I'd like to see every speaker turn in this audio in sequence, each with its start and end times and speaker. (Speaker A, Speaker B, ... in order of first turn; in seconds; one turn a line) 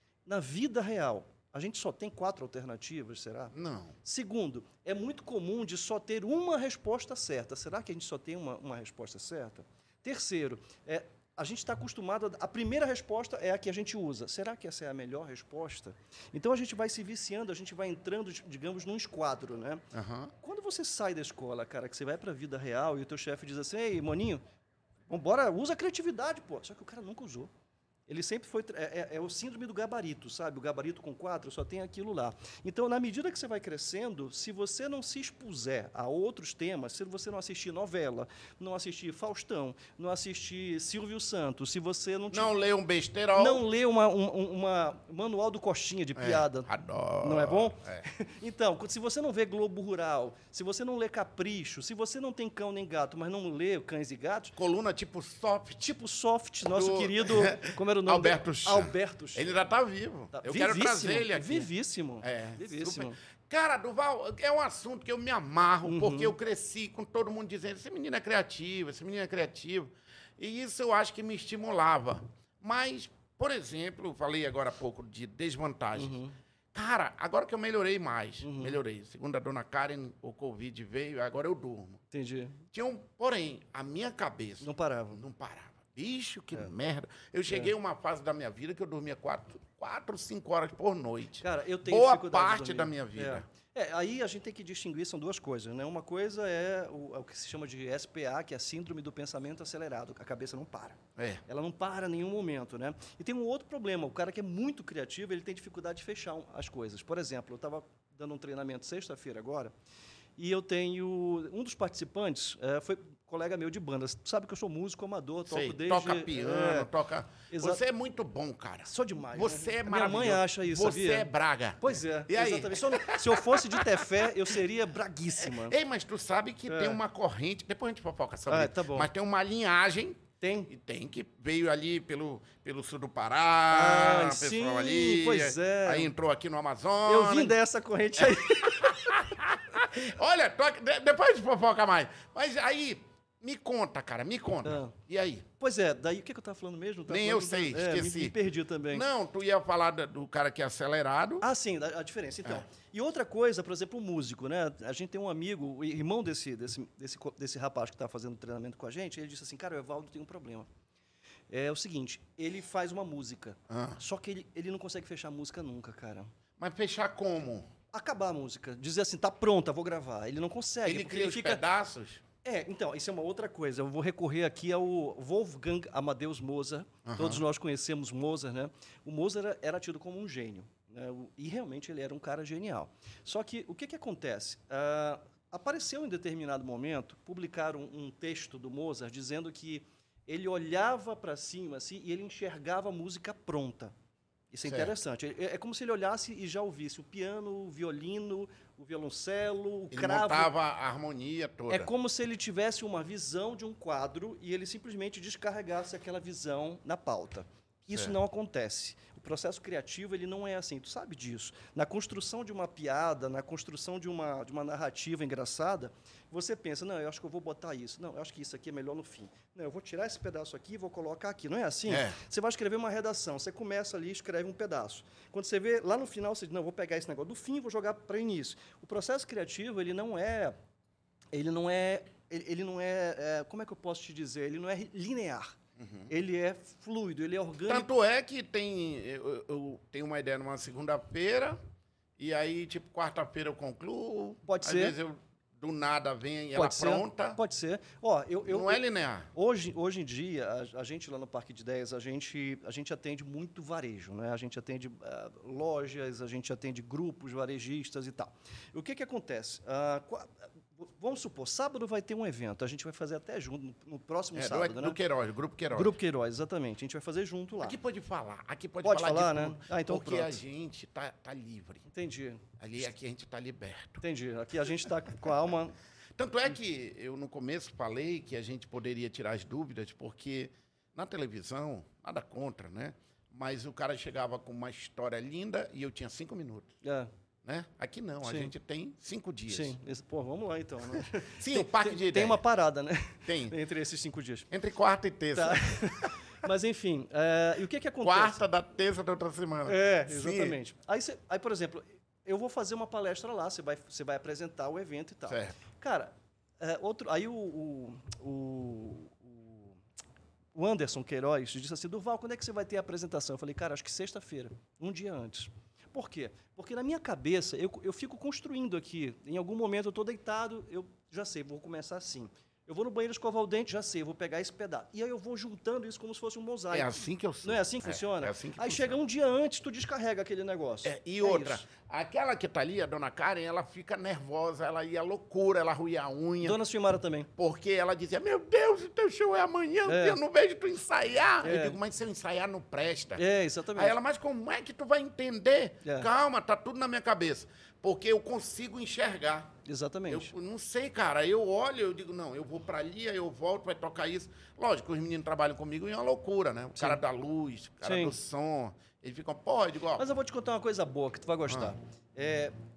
Speaker A: 0.2-19.9
Speaker B: 3.5-4.0
Speaker B: 19.9-20.3
Speaker A: 20.4-24.4
Speaker A: 25.1-27.5
Speaker A: 28.1-42.5
Speaker B: 42.3-43.6
Speaker A: 43.4-46.7
Speaker B: 46.2-48.0
Speaker A: 47.2-54.5
Speaker B: 54.5-55.9
Speaker A: 55.8-59.6
Speaker B: 56.6-61.7
Speaker A: 60.3-63.2
Speaker B: 62.2-76.2
Speaker A: 65.8-66.3
Speaker A: 76.0-76.3
Speaker B: 76.7-82.0
Speaker A: 78.4-78.8
Speaker A: 82.1-82.6
Speaker B: 82.7-93.5
Speaker A: 84.6-85.2
Speaker A: 91.4-109.7
Speaker B: 101.2-101.4
Speaker A: 110.4-116.9
Speaker B: 115.5-124.5
Speaker A: 117.5-117.8
Speaker A: 118.9-121.3
Speaker A: 121.8-125.8
Speaker B: 125.4-137.6
Speaker A: 126.7-127.0
Speaker A: 128.5-129.1
Speaker A: 130.4-130.7
Speaker A: 133.7-136.1
Speaker A: 137.1-139.3
Speaker B: 138.2-145.5
Speaker A: 144.7-144.9
Speaker A: 145.6-149.0
Speaker B: 147.1-148.4
Speaker B: 148.9-151.5
Speaker A: 151.4-160.7
Speaker A: 161.5-166.3
Speaker B: 163.7-164.0
Speaker B: 166.6-167.7
Speaker A: 167.9-171.6
Speaker B: 170.8-172.2
Speaker A: 172.4-193.9
Speaker B: 177.1-177.4
Speaker A: 194.5-200.5
Speaker B: 194.7-194.9
Speaker B: 199.9-201.9
Speaker A: 201.7-230.5
Speaker B: 207.9-208.2
Speaker B: 221.9-222.2
Speaker A: 231.3-235.6
Speaker B: 235.8-236.1
Speaker A: 236.1-237.9
Speaker B: 237.7-241.6
Speaker B: 242.2-247.4
Speaker A: 244.5-245.0
Speaker A: 246.5-265.0
Speaker B: 248.5-249.3
Speaker B: 264.4-265.9
Speaker A: 265.7-267.8
Speaker B: 267.6-271.9
Speaker A: 268.8-270.4
Speaker A: 271.9-272.4
Speaker B: 272.6-274.0
Speaker A: 274.0-275.8
Speaker B: 276.2-286.7
Speaker A: 286.8-287.1
Speaker B: 287.4-289.8
Speaker A: 288.2-288.5
Speaker A: 289.5-294.5
Speaker B: 291.4-292.4
Speaker B: 293.3-293.6
Speaker B: 294.5-296.1
Speaker A: 295.3-298.4
Speaker B: 298.0-300.6
Speaker A: 299.7-309.8
Speaker B: 305.3-305.5
Speaker A: 310.5-331.6
Speaker B: 326.7-329.0
Speaker B: 330.8-336.6
Speaker A: 336.4-337.3
Speaker B: 337.4-343.2
Speaker A: 339.9-340.2
Speaker A: 341.4-341.8
Speaker A: 343.2-344.0
Speaker B: 343.8-349.5
Speaker A: 345.8-346.1
Speaker A: 349.6-350.3
Speaker B: 350.1-360.1
Speaker A: 356.8-357.0
Speaker A: 357.8-358.2
Speaker A: 360.0-362.5